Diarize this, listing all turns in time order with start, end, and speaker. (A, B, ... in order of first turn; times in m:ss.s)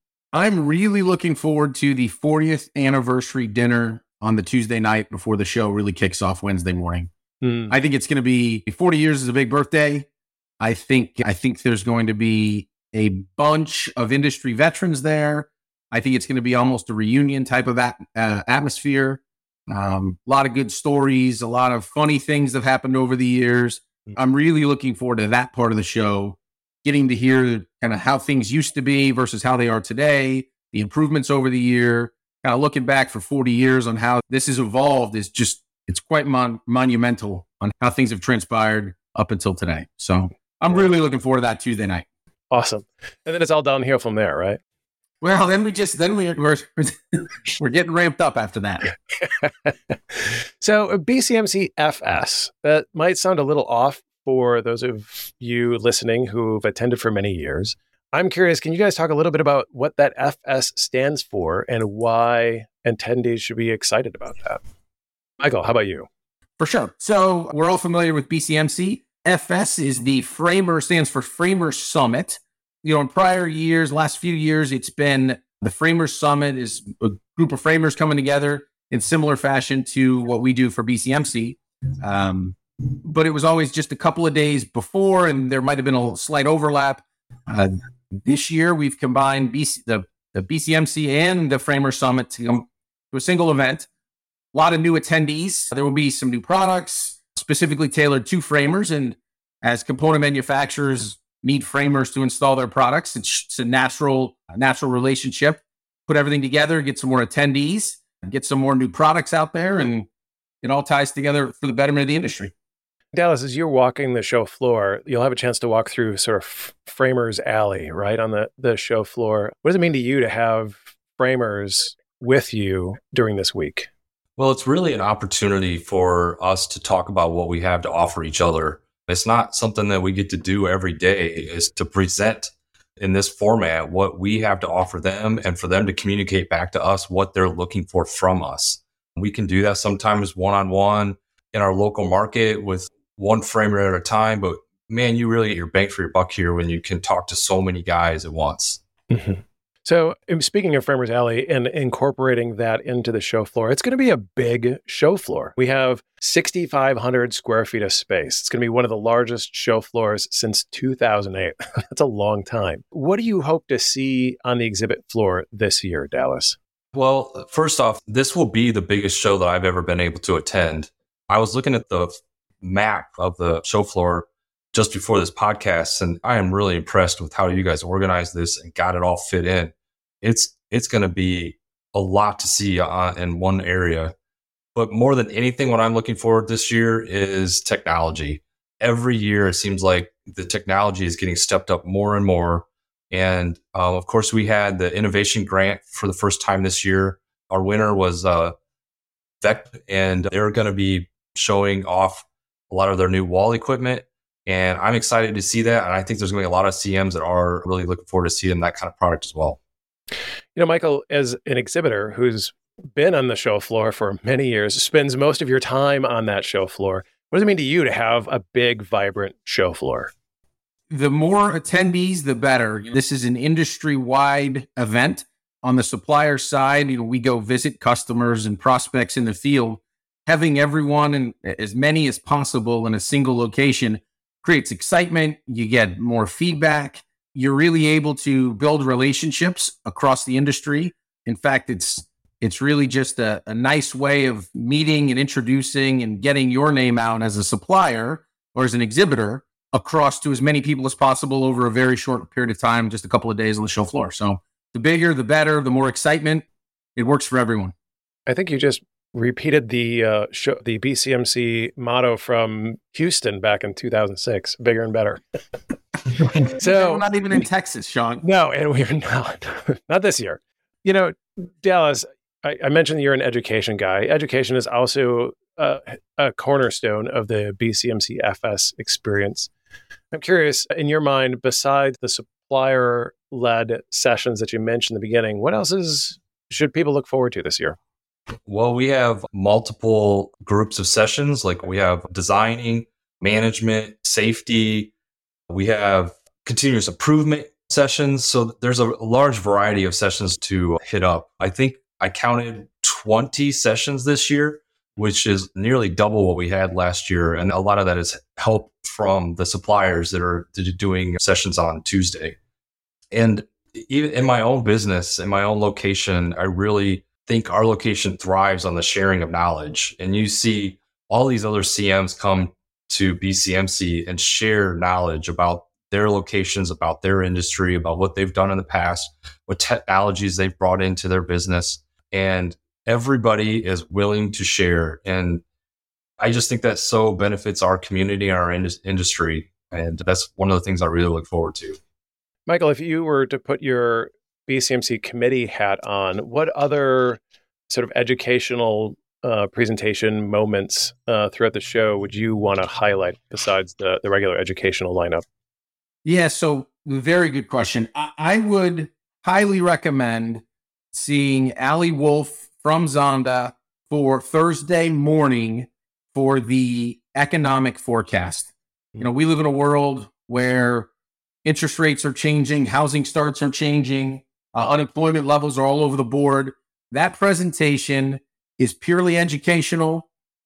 0:00.3-0:07.1 A
0:07.4-0:07.7 B
0:07.7-0:10.1 A
0:10.6-0:42.0 A
0:42.5-0:44.6 B
0:45.2-0:48.9 A
0:49.2-0:49.7 B
0:50.2-1:04.6 B
1:05.4-1:06.1 B
1:06.6-1:33.9 A
1:34.5-1:50.1 A
1:50.6-1:52.5 A
1:53.1-2:03.9 B
2:04.4-2:28.8 C
2:29.1-2:46.6 B
2:46.9-3:04.2 C
3:04.8-3:18.5 C
3:19.4-3:29.6 C
3:30.6-3:40.1 B
3:40.9-4:17.7 A
4:18.3-4:25.2 B
4:26.2-4:27.0 B
4:26.4-4:28.2 A
4:28.2-4:39.5 B
4:40.1-4:47.8 B
4:48.5-4:54.9 C
4:55.5-5:12.4 C
5:13.1-5:35.4 C
5:36.2-5:41.8 C
5:42.5-5:55.2 B
5:56.0-6:00.4 A
6:00.9-6:10.9 A
6:11.4-6:20.1 A